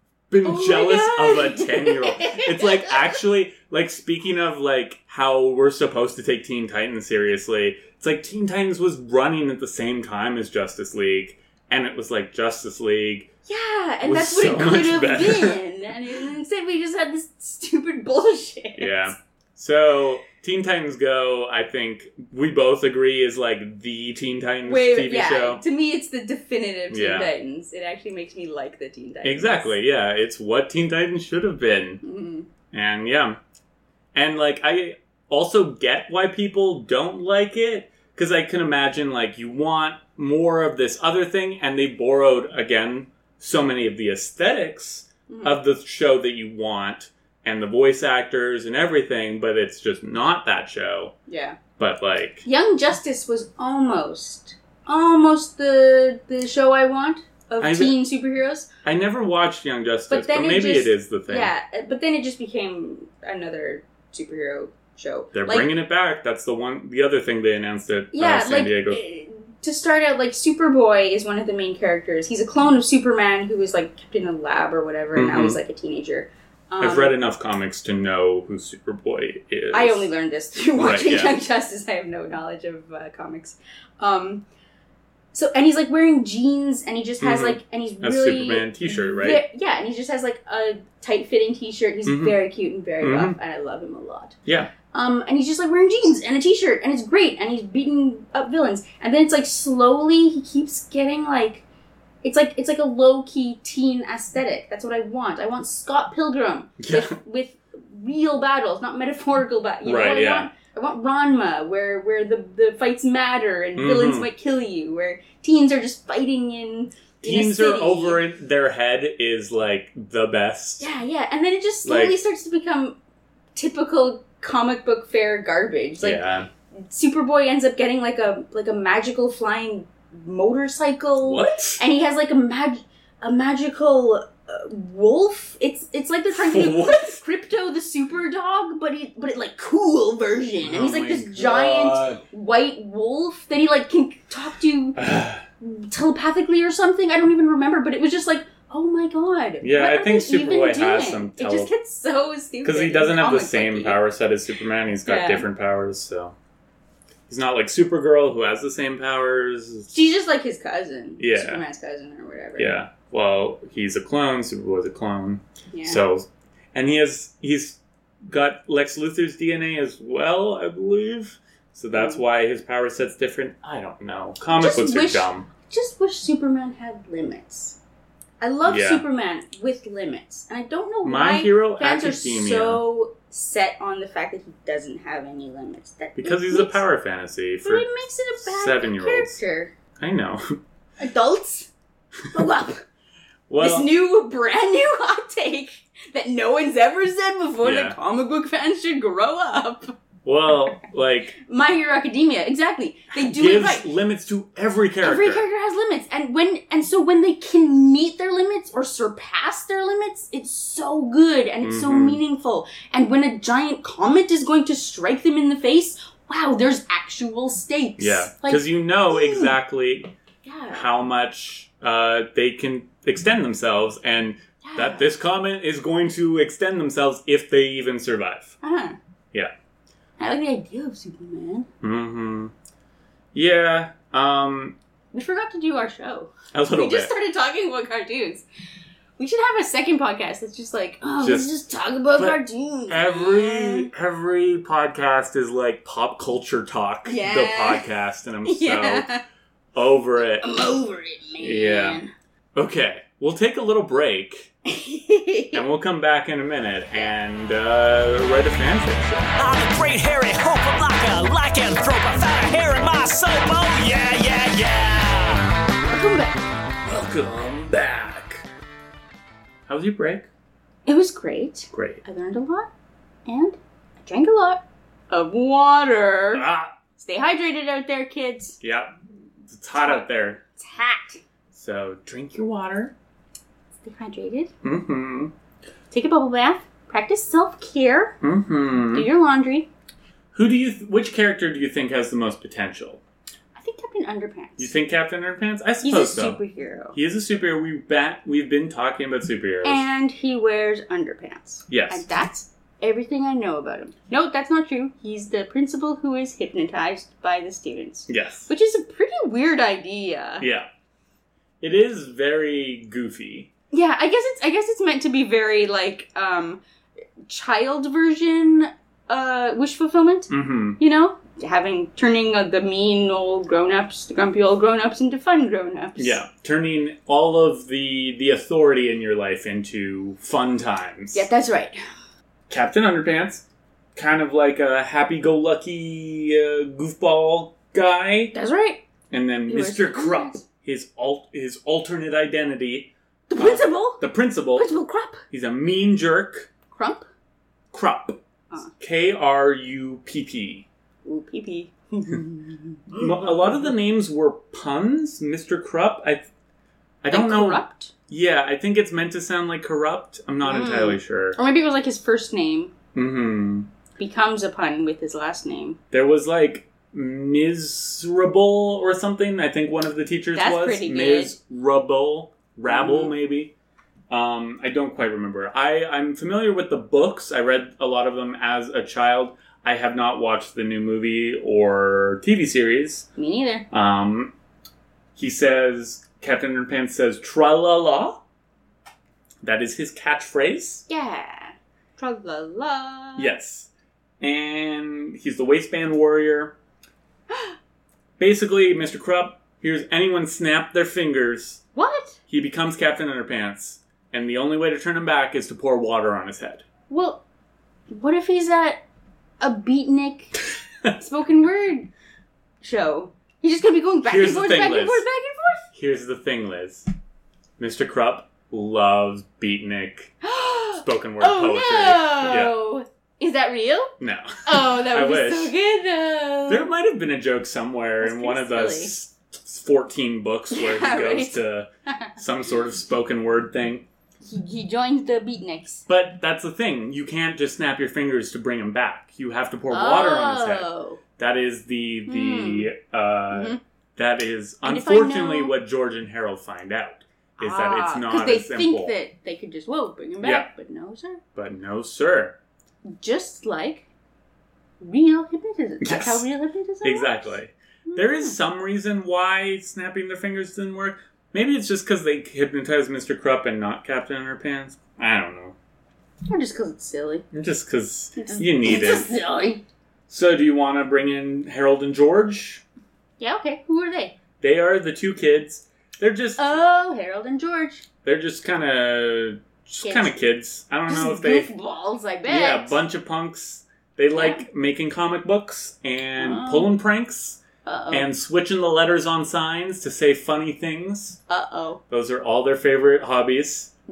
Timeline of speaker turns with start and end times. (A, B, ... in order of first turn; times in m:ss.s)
0:00.3-0:13.3 A
0:00.4-0:03.2 B
0:13.5-0:19.1 B
0:14.0-0:15.6 A
0:18.8-0:25.6 A
0:24.6-0:29.7 B
0:26.9-0:27.3 A
0:29.2-0:32.0 A
0:32.0-0:32.5 B
0:32.7-0:33.4 A
0:34.1-0:51.1 A
0:45.3-0:45.6 B
0:51.3-0:51.6 B
0:51.8-0:52.4 A
0:52.4-0:58.7 B
0:57.6-0:58.0 A
0:58.8-1:01.5 A
1:00.1-1:05.7 B
1:05.3-1:09.0 A
1:08.1-1:17.1 B
1:15.1-1:15.6 A
1:16.8-1:20.1 A
1:19.7-1:24.4 B
1:20.8-1:21.4 A
1:25.3-1:34.4 B
1:27.2-1:29.4 A
1:32.0-1:32.4 A
1:33.0-1:33.4 A
1:34.4-1:34.7 A
1:34.9-1:41.6 B
1:42.2-1:58.2 B
1:46.8-1:47.2 A
1:49.8-1:50.5 A
1:53.8-1:54.3 A
1:57.2-2:00.9 A
2:00.8-2:03.0 B
2:01.8-2:02.2 A
2:03.5-2:25.0 B
2:06.0-2:06.5 A
2:11.2-2:11.8 A
2:16.3-2:17.2 A
2:20.6-2:22.2 A
2:25.0-2:25.4 A
2:25.6-2:34.0 B
2:29.6-2:31.7 A
2:32.6-2:36.3 A
2:35.0-2:35.5 B
2:37.3-2:39.9 A
2:39.9-2:42.7 B
2:41.2-2:41.6 A
2:42.6-2:55.5 A
2:45.7-2:46.0 B
2:51.9-2:52.2 B
2:54.5-2:57.8 B
2:58.4-3:06.8 B
2:58.6-2:59.0 A
3:01.0-3:02.8 A
3:06.2-3:09.4 A
3:07.6-3:09.7 B
3:10.0-3:10.6 A
3:11.0-3:11.7 B
3:12.3-3:12.8 B
3:13.5-3:13.9 A
3:13.6-3:20.0 B
3:17.6-3:18.0 A
3:20.2-3:21.3 A
3:21.3-3:23.9 B
3:23.1-3:25.4 A
3:25.0-3:39.5 B
3:31.6-3:32.2 A
3:38.0-3:40.1 A
3:40.4-3:40.9 B
3:40.7-3:48.6 A
3:44.6-3:45.1 B
3:48.6-3:49.0 B
3:50.2-3:51.7 B
3:51.8-3:52.5 A
3:53.3-3:54.8 A
3:55.1-3:58.4 B
3:56.5-3:57.1 A
3:59.2-4:03.9 B
4:01.2-4:01.5 A
4:02.2-4:09.1 A
4:07.0-4:07.8 B
4:08.4-4:09.2 B
4:09.7-4:10.6 A
4:10.4-4:12.1 B
4:11.4-4:12.0 A
4:12.5-4:14.5 A
4:14.7-4:15.6 B
4:15.5-4:19.3 A
4:19.4-4:25.5 C
4:25.8-4:26.4 B
4:26.8-4:28.4 A
4:29.7-4:30.3 A
4:30.8-4:32.7 B
4:31.7-4:32.0 A
4:33.2-4:36.4 B
4:36.3-4:36.7 A
4:37.0-4:38.6 B
4:38.6-4:38.9 A
4:39.4-4:40.4 A
4:39.8-4:41.2 B
4:41.5-4:42.9 A
4:43.8-4:44.5 B
4:44.6-4:45.3 A
4:45.9-4:48.2 B
4:48.2-4:49.1 A
4:48.9-4:49.7 B
4:50.3-4:53.0 A
4:53.6-4:54.7 B
4:54.6-4:56.4 A
4:55.8-4:57.0 B
4:56.9-4:59.8 A
4:59.6-5:10.5 B
5:01.7-5:02.1 A
5:08.1-5:08.5 A
5:10.4-5:10.7 A
5:11.6-5:13.5 A
5:13.7-5:16.6 B
5:17.2-5:26.2 B
5:20.3-5:20.8 A
5:26.0-5:31.3 A
5:31.1-5:31.8 B
5:32.5-5:33.4 A
5:33.9-5:38.3 A
5:38.3-5:38.8 B
5:39.1-5:44.7 A
5:39.5-5:40.4 B
5:43.3-5:45.2 B
5:45.3-5:46.5 A
5:46.7-5:47.1 B
5:47.7-5:48.2 A
5:48.7-5:50.6 A
5:51.0-5:53.0 B
5:52.9-5:56.3 A
5:57.0-6:01.4 A
5:57.1-5:57.9 B
6:00.4-6:02.7 B
6:02.9-6:03.7 A
6:04.0-6:05.8 B
6:05.9-6:13.5 A
6:10.3-6:11.3 B
6:12.7-6:13.1 B
6:14.1-6:23.1 A
6:23.2-6:23.7 B
6:23.7-6:24.3 A
6:25.2-6:28.2 A
6:29.4-6:30.8 A
6:30.9-6:33.3 B
6:33.2-6:36.5 A
6:37.3-6:37.5 B
6:38.2-6:41.6 A
6:41.7-6:42.2 B
6:42.3-6:46.6 A
6:46.9-6:47.2 B
6:47.9-6:48.8 B
6:49.4-6:50.4 B
6:51.0-6:51.9 B
6:52.6-6:55.6 B
6:54.0-6:55.0 A
6:55.7-6:56.9 A
6:57.6-7:00.1 A
7:00.2-7:03.9 B
7:00.7-7:02.5 A
7:04.0-7:05.5 A
7:04.4-7:06.7 B
7:06.5-7:13.8 A
7:08.0-7:08.9 B
7:10.5-7:12.2 B
7:14.2-7:15.8 B
7:15.9-7:29.0 A
7:19.7-7:21.0 B
7:22.0-7:22.7 B
7:23.3-7:23.6 B
7:24.6-7:25.5 B
7:27.4-7:31.2 B
7:30.2-7:30.5 A
7:31.3-7:32.4 A
7:32.8-7:33.9 B
7:34.8-7:38.4 B
7:35.8-7:36.2 A
7:36.8-7:45.5 A
7:46.2-7:47.2 B
7:47.3-7:49.1 A
7:48.2-7:49.6 B
7:50.1-7:52.6 A
7:53.2-7:54.2 B
7:54.4-7:56.6 A
7:56.4-7:57.8 B
7:58.0-8:01.5 A
7:59.8-8:00.1 B
8:00.9-8:02.8 B
8:02.3-8:11.2 A
8:04.1-8:04.4 B
8:06.2-8:06.8 B
8:07.6-8:08.1 B
8:11.3-8:11.8 B
8:11.9-8:13.7 A